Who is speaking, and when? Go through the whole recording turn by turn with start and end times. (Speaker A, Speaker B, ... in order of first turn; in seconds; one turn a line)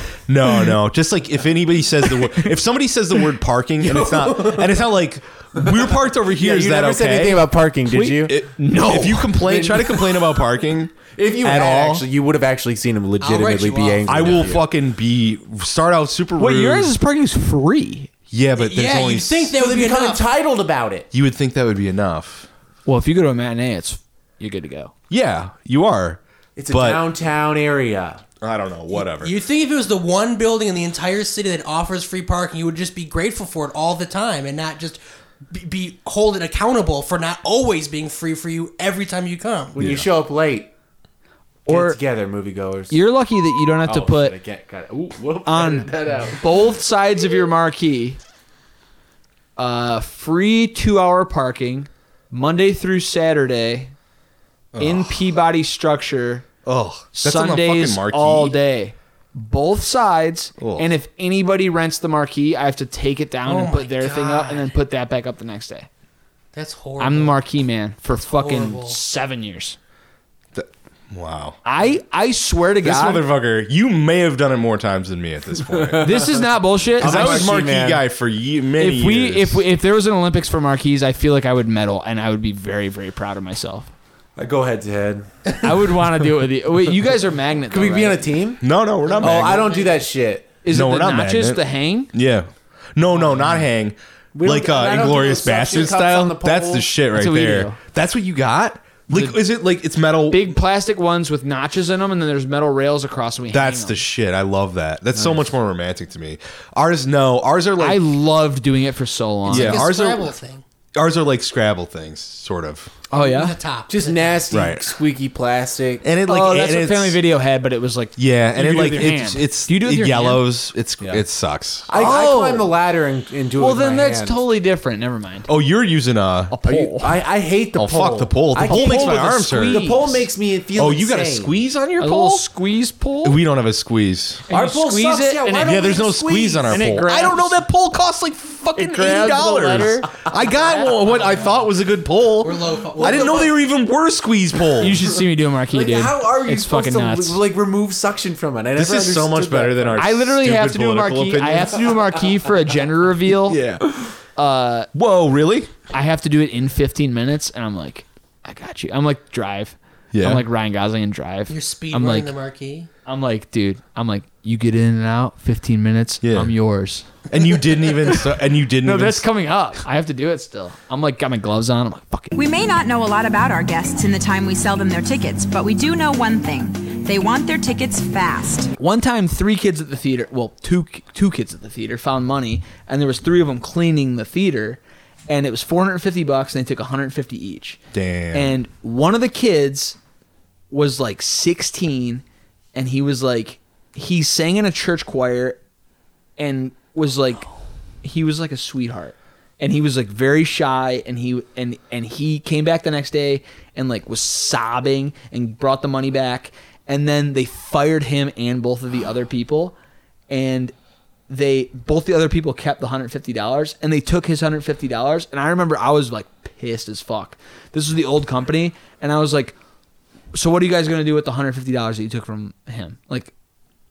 Speaker A: 0.3-7.6
Speaker B: 2.2-2.5
Speaker C: 3.8-4.8
Speaker C: 6.3-8.3
Speaker B: 7.8-9.4
Speaker A: 8.2-12.0
Speaker C: 9.4-10.1
Speaker C: 11.2-14.6
Speaker D: 13.2-14.3
Speaker A: 14.1-16.9
Speaker B: 16.4-18.1
Speaker A: 18.3-19.6
Speaker D: 18.6-20.2
Speaker C: 19.6-21.1
Speaker A: 21.1-22.5
Speaker B: 22.8-24.9
Speaker A: 25.1-27.1
Speaker C: 26.6-28.2
Speaker A: 28.4-29.3
Speaker D: 28.9-35.0
Speaker D: 35.5-39.8
Speaker C: 39.7-40.7
Speaker A: 39.8-40.1
Speaker B: 41.6-42.0
Speaker C: 41.7-42.9
Speaker B: 42.9-44.4
Speaker C: 43.8-46.4
Speaker B: 45.4-48.2
Speaker B: 49.6-53.9
Speaker A: 54.7-55.2
Speaker B: 54.8-56.5
Speaker A: 56.6-58.5
Speaker B: 57.1-65.9
Speaker A: 60.6-60.9
Speaker D: 63.5-64.7
Speaker D: 66.5-67.4
Speaker B: 67.0-69.8
Speaker D: 68.1-69.0
Speaker A: 70.5-71.6
Speaker B: 71.6-73.2
Speaker A: 72.8-76.2
Speaker C: 75.8-76.4
Speaker B: 76.0-77.7
Speaker C: 77.0-78.0
Speaker A: 77.0-79.6
Speaker B: 78.8-83.9
Speaker C: 84.4-86.0
Speaker B: 85.6-88.3
Speaker C: 87.7-88.6
Speaker A: 88.6-89.7
Speaker D: 89.1-90.0
Speaker C: 89.2-90.6
Speaker B: 89.2-89.6
Speaker B: 90.6-92.1
Speaker A: 90.7-100.6
Speaker C: 94.3-96.9
Speaker B: 97.1-97.8
Speaker B: 99.1-99.4
Speaker B: 100.3-104.0
Speaker A: 103.5-108.0
Speaker C: 105.1-105.5
Speaker B: 107.8-109.8
Speaker A: 109.5-110.3
Speaker D: 109.5-110.6
Speaker A: 111.0-112.9
Speaker D: 113.1-114.4
Speaker B: 113.1-113.5
Speaker C: 113.9-116.0
Speaker A: 114.5-114.9
Speaker A: 116.0-117.2
Speaker B: 116.2-120.4
Speaker A: 118.2-121.9
Speaker C: 121.9-124.4
Speaker B: 121.9-122.7
Speaker B: 123.6-125.5
Speaker A: 125.5-126.5
Speaker B: 126.5-127.2
Speaker C: 126.6-131.5
Speaker A: 127.7-129.8
Speaker B: 128.6-130.3
Speaker A: 130.7-132.4
Speaker B: 132.0-133.4
Speaker A: 133.2-134.4
Speaker B: 134.5-137.6
Speaker C: 134.5-137.1
Speaker A: 135.6-145.1
Speaker B: 138.8-140.2
Speaker D: 141.0-141.5
Speaker D: 142.4-143.6
Speaker C: 143.0-143.3
Speaker B: 144.8-147.4
Speaker C: 145.7-150.0
Speaker A: 148.7-151.8
Speaker B: 150.0-153.6
Speaker A: 153.4-153.9
Speaker B: 154.3-154.9
Speaker A: 154.9-155.7
Speaker B: 155.9-162.3
Speaker A: 160.1-160.4
Speaker D: 161.5-162.9
Speaker B: 163.1-167.2
Speaker A: 166.2-166.5
Speaker A: 167.3-169.2
Speaker B: 168.8-172.3
Speaker E: 172.3-178.7
Speaker B: 178.8-187.8
Speaker A: 187.9-188.6
Speaker B: 188.3-190.0
Speaker B: 190.7-192.2
Speaker B: 192.7-195.6
Speaker B: 196.4-197.5
Speaker B: 198.0-209.7
Speaker B: 210.3-210.7
Speaker B: 211.3-219.5
Speaker B: 220.3-223.3